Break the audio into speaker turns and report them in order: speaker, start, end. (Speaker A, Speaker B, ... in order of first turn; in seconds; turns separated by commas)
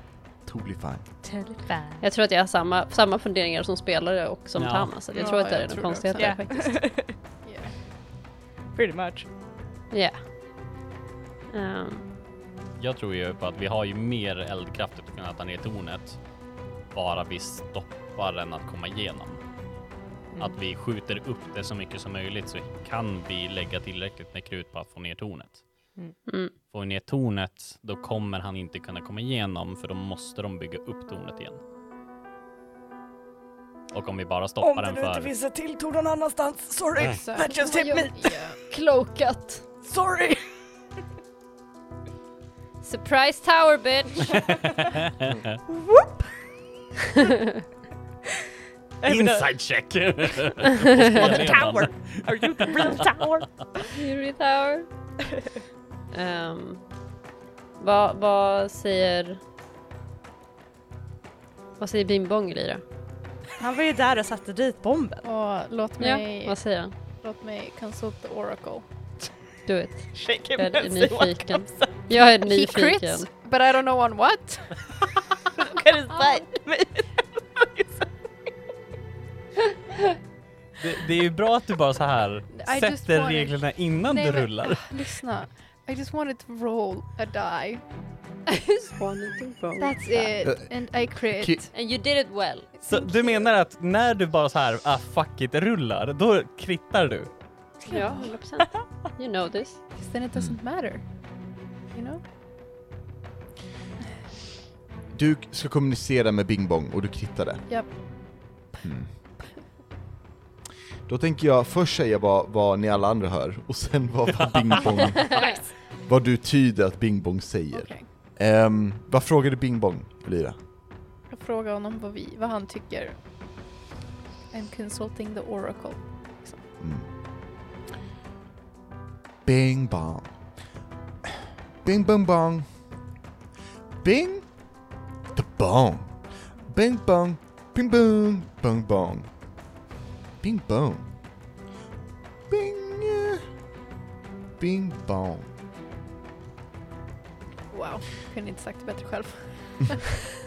Speaker A: 0.5-1.1, Speaker B: 1.2-2.0, Speaker C: 2.0-6.9, Speaker D: 4.6-5.1, Speaker B: 5.1-5.4, Speaker E: 5.2-6.4, Speaker B: 6.2-7.2, Speaker E: 7.4-7.7, Speaker B: 8.7-9.3, Speaker C: 9.9-10.2, Speaker C: 11.5-12.1, Speaker D: 12.8-16.2, Speaker D: 16.9-19.4, Speaker D: 20.4-25.6, Speaker C: 26.3-26.5, Speaker D: 26.6-31.6, Speaker D: 33.9-35.3, Speaker B: 34.6-38.4, Speaker E: 37.1-38.6, Speaker C: 37.6-38.1, Speaker C: 38.6-39.7, Speaker B: 39.8-40.5, Speaker C: 42.8-44.4, Speaker D: 44.5-45.4, Speaker B: 45.7-46.3, Speaker C: 47.2-47.6, Speaker B: 49.0-49.5, Speaker D: 49.1-53.1, Speaker B: 51.1-53.5, Speaker C: 53.8-54.9, Speaker C: 56.1-56.9, Speaker C: 57.8-59.4, Speaker C: 61.8-62.8, Speaker B: 63.6-65.3, Speaker E: 65.2-66.6, Speaker C: 66.0-66.9, Speaker E: 67.2-68.9, Speaker C: 69.7-73.3, Speaker B: 70.1-72.1, Speaker E: 72.4-75.1, Speaker B: 75.6-78.1, Speaker D: 80.8-84.9, Speaker E: 82.5-87.9, Speaker C: 88.5-90.4, Speaker E: 89.8-91.8, Speaker A: 90.4-91.6, Speaker C: 91.7-92.7, Speaker E: 92.8-93.4, Speaker D: 92.9-97.5, Speaker E: 97.8-98.3, Speaker C: 97.9-99.9, Speaker E: 99.9-102.2, Speaker A: 105.1-108.0, Speaker E: 107.7-108.8, Speaker A: 108.8-109.1, Speaker A: 111.1-115.3, Speaker B: 115.3-115.7, Speaker A: 115.9-120.6, Speaker E: 117.7-118.1, Speaker E: 121.3-123.2, Speaker E: 124.5-126.7, Speaker A: 126.8-127.1, Speaker A: 129.4-130.3, Speaker A: 131.3-132.8, Speaker A: 134.0-134.6, Speaker A: 135.3-139.3, Speaker A: 140.4-141.1, Speaker A: 142.5-143.4, Speaker A: 144.6-145.5, Speaker E: 147.7-150.2